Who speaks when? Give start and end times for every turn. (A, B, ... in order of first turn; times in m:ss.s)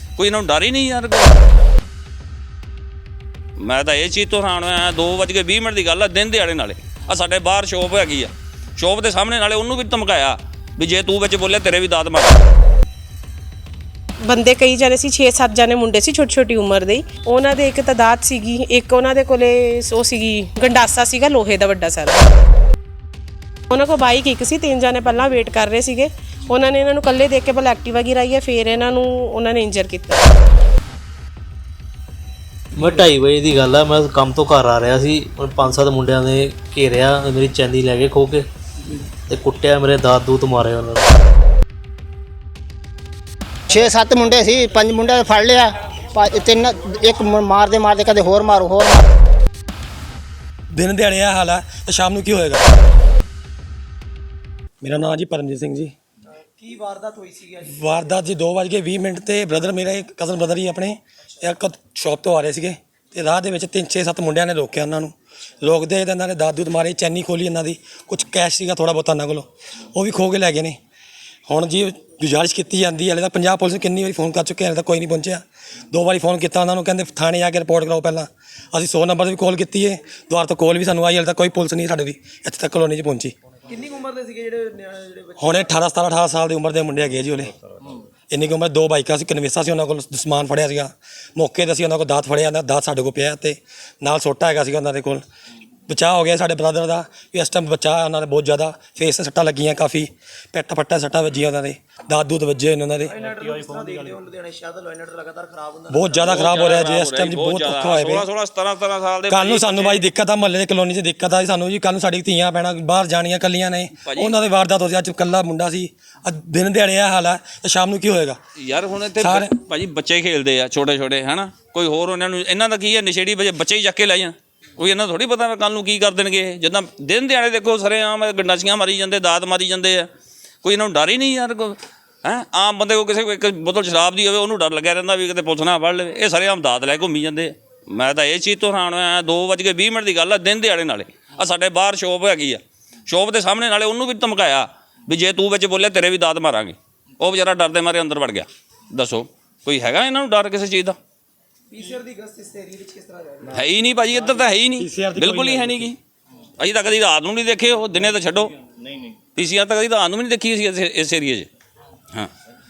0:00.2-0:01.4 A
0:03.6-0:12.5 A
0:14.3-0:22.3 B
0:23.7-0:30.2 B
0:32.7-0:38.4 C
0:39.3-0:41.2 C
0:43.7-0:49.0 D
0:50.7-0:52.6 E
0:54.8-0:55.9 E
0:56.6-0:58.2 F
0:57.7-1:10.8 E
1:11.5-1:23.3 E
1:23.7-1:25.8 F
1:25.4-1:27.5 E
1:28.3-1:35.2 E
1:35.9-1:43.2 E
1:43.0-1:46.4 F
1:45.9-1:48.2 E
1:46.2-1:50.0 A
1:49.3-1:58.4 E
1:54.0-1:54.4 A
1:58.6-2:10.1 A
1:59.2-1:59.5 E
2:10.6-2:31.0 A
2:31.7-2:33.7 F
2:33.5-2:36.0 A
2:34.8-2:35.9 E
2:36.6-2:38.5 A
2:39.3-2:41.5 A